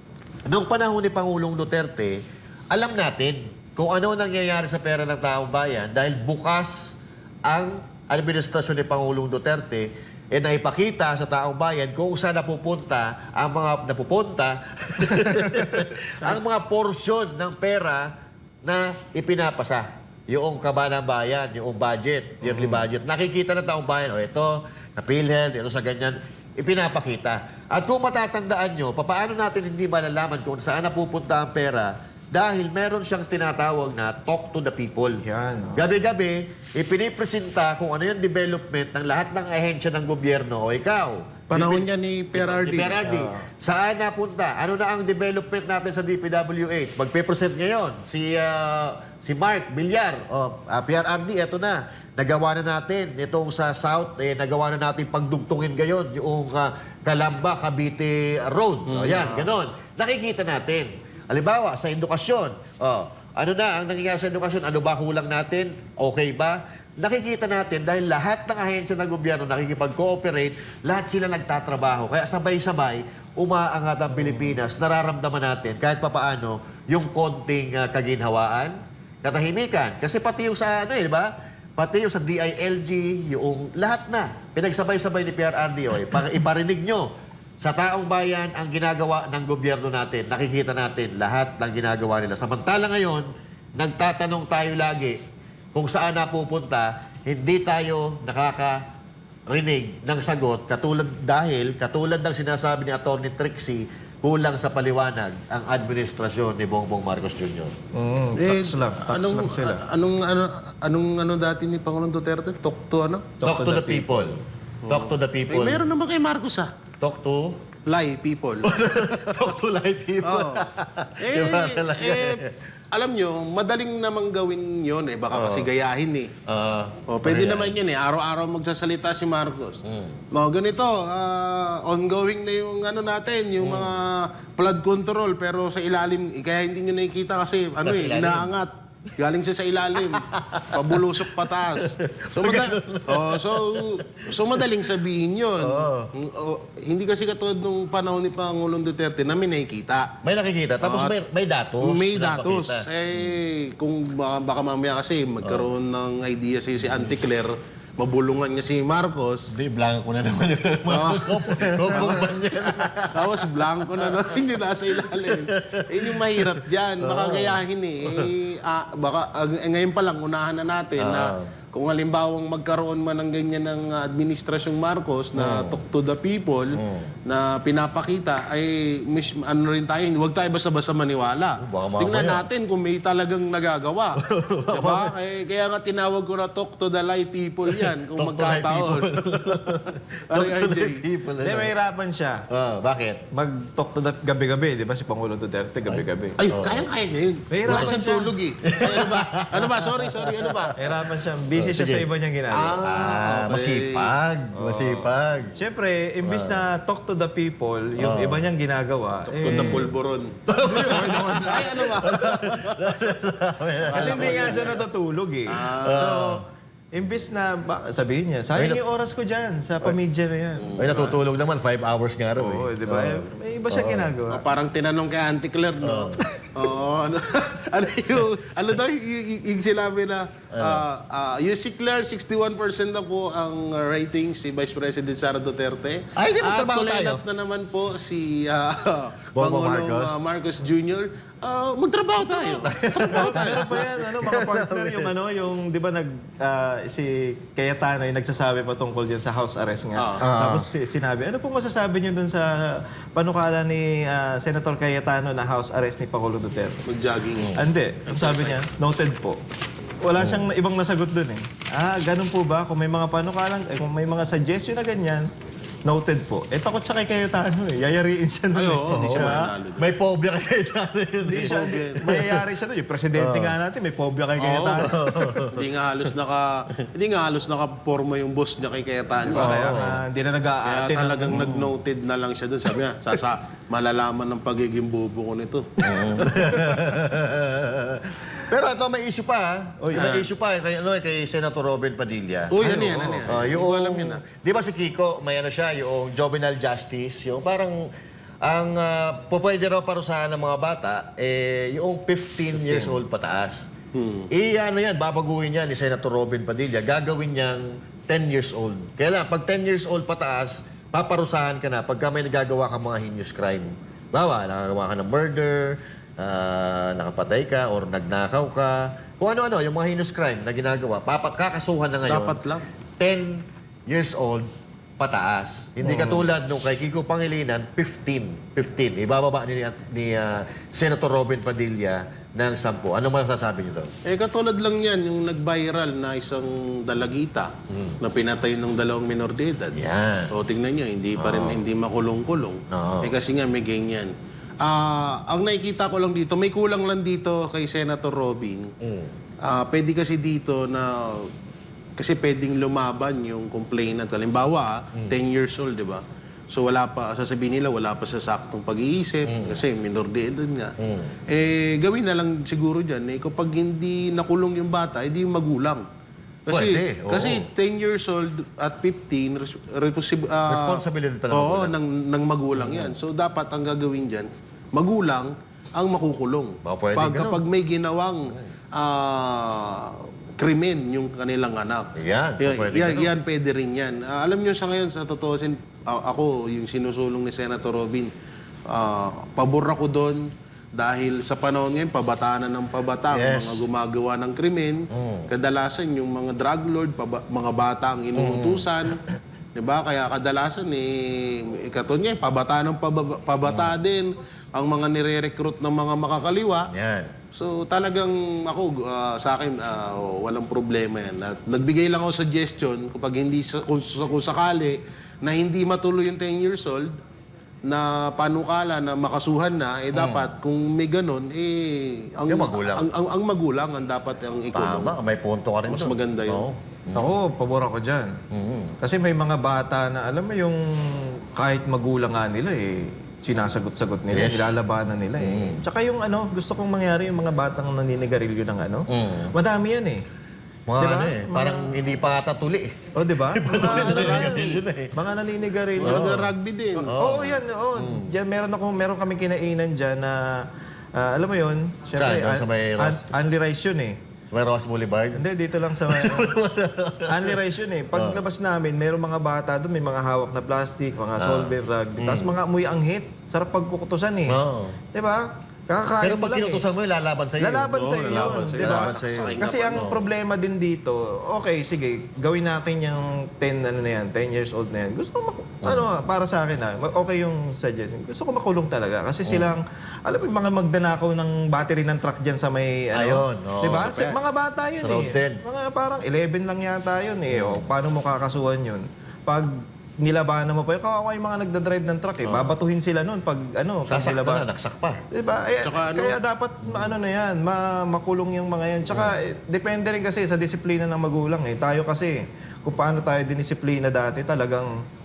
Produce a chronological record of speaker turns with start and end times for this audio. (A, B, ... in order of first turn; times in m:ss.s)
0:00.5-0:35.2 A
0:15.3-0:15.7 B
0:22.4-0:22.8 B
0:35.2-0:35.9 B
0:35.7-1:27.1 A
0:41.5-0:43.0 C
0:43.0-0:43.4 B
0:58.9-0:59.5 C
1:14.1-1:14.6 B
1:27.6-1:35.2 A
1:35.7-1:38.8 A
1:39.5-1:47.7 A
1:47.9-1:49.8 B
1:48.4-1:53.3 C
1:53.4-1:54.3 B
1:53.4-1:55.8 A
1:54.8-1:56.7 C
1:57.0-1:57.6 A
1:57.8-1:59.4 C
1:58.6-2:02.6 A
2:00.2-2:00.6 C
2:01.2-2:06.3 C
2:05.3-2:05.7 A
2:06.4-2:07.8 A
2:07.1-2:09.8 C
2:09.8-2:10.2 A
2:10.3-2:30.1 C
2:13.6-2:13.9 A
2:17.8-2:18.5 A
2:20.0-2:24.7 A
2:25.6-2:26.1 A
2:30.2-2:33.3 A
2:30.8-2:31.1 C
2:31.8-2:39.5 C
2:39.5-2:48.3 A
2:40.9-3:04.2 C
2:51.0-2:51.5 A
2:55.4-2:55.8 A
2:56.7-2:57.1 A
3:01.6-3:02.5 A
3:04.2-3:05.1 A
3:04.7-3:11.0 C
3:07.7-3:11.7 A
3:11.4-3:12.4 B
3:12.5-3:13.2 A
3:13.3-3:16.4 B
3:15.9-3:16.9 A
3:16.4-3:20.7 C
3:17.5-3:19.1 B
3:17.7-3:18.0 A
3:18.6-3:20.7 A
3:20.8-3:22.8 B
3:21.5-3:22.0 A
3:22.5-3:24.1 C
3:22.8-3:25.6 A
3:24.5-3:29.9 B
3:26.2-3:26.6 A
3:28.0-3:28.4 A
3:29.3-3:33.0 C
3:29.4-3:29.9 A
3:30.5-3:34.8 A
3:30.6-3:31.9 B
3:33.9-3:34.8 C
3:33.9-3:40.9 B
3:35.5-3:36.1 C
3:35.8-3:36.4 A
3:38.5-3:38.8 A
3:40.6-3:41.1 C
3:40.8-3:44.1 A
3:42.4-3:44.4 B
3:44.2-4:03.8 C
3:45.8-3:46.2 A
3:50.5-3:50.8 A
3:56.2-3:57.2 A
3:59.3-4:00.1 A
4:02.2-4:05.1 A
4:03.1-4:16.8 B
4:09.9-4:10.2 C
4:10.2-4:10.7 A
4:16.8-4:18.7 C
4:17.4-4:17.6 A
4:17.6-4:19.4 B
4:20.0-4:25.2 B
4:20.2-4:20.5 A
4:25.8-4:29.4 B
4:28.5-4:29.8 C
4:28.9-4:32.4 A
4:31.2-4:35.4 B
4:31.4-4:32.0 C
4:33.2-4:33.6 A
4:34.4-4:34.9 C
4:34.8-4:35.5 A
4:35.5-4:40.0 C
4:39.4-4:41.5 B
4:39.4-4:39.9 A
4:40.6-4:46.6 C
4:41.3-4:41.7 A
4:45.8-4:57.9 A
4:49.8-4:50.1 B
4:49.9-4:50.3 C
4:52.5-4:54.2 C
4:52.6-4:53.3 B
4:58.4-5:03.6 A
5:02.6-5:03.0 B
5:03.9-5:04.3 C
5:04.3-5:22.4 A
5:22.0-5:22.7 C
5:23.0-5:24.5 A
5:25.0-5:33.9 A
5:25.8-5:26.3 B
5:34.0-5:39.8 C
5:37.7-5:38.0 A
5:39.7-5:40.3 A
5:40.3-5:48.7 C
5:41.2-5:41.6 A
5:42.7-5:43.1 A
5:48.8-5:49.1 A
5:49.4-5:51.3 C
5:52.0-6:00.7 C
5:59.2-5:59.6 A
6:00.8-6:01.1 A
6:01.3-6:05.8 C
6:06.5-6:28.1 C
6:06.5-6:07.5 A
6:10.5-6:11.8 A
6:12.5-6:12.9 A
6:16.6-6:17.4 A
6:21.9-6:23.1 A
6:28.7-6:30.2 C
6:30.7-6:39.0 C
6:33.1-6:33.6 A
6:34.9-6:35.3 A
6:38.1-6:38.7 A
6:39.5-6:46.7 C
6:43.4-6:43.7 A
6:46.7-6:47.1 A
6:47.3-6:56.9 C
6:57.7-7:04.9 C
6:59.9-7:00.3 A
7:02.3-7:02.8 A
7:04.5-7:07.1 A
7:05.7-7:06.5 C
7:06.9-7:08.1 B
7:08.3-7:08.7 A
7:08.8-7:20.0 B
7:14.1-7:14.5 A
7:15.2-7:15.6 A
7:18.9-7:19.3 A
7:20.7-7:22.8 A
7:20.8-7:21.7 B
7:22.9-7:24.4 B
7:23.3-7:24.9 A
7:23.5-7:24.6 C
7:24.9-7:26.3 B
7:25.8-7:26.9 C
7:25.8-7:26.2 A
7:26.8-7:28.1 A
7:27.0-7:30.2 B
7:30.9-7:34.0 B
7:32.0-7:33.1 A
7:34.3-7:35.2 A
7:35.2-7:36.3 B
7:35.8-7:37.4 A
7:37.1-7:44.4 B
7:37.9-7:38.2 A
7:41.2-7:42.4 A
7:44.3-7:44.8 A
7:44.9-7:46.6 B
7:46.0-7:50.0 A
7:47.4-8:14.4 B
7:47.7-7:49.9 C
7:55.6-7:55.9 A
7:59.2-7:59.5 A
8:02.9-8:04.2 A
8:04.8-8:05.4 A
8:07.3-8:07.7 A
8:12.2-8:12.6 A
8:13.9-8:15.0 A
8:15.1-8:24.7 B
8:15.6-8:16.2 C
8:18.9-8:19.1 A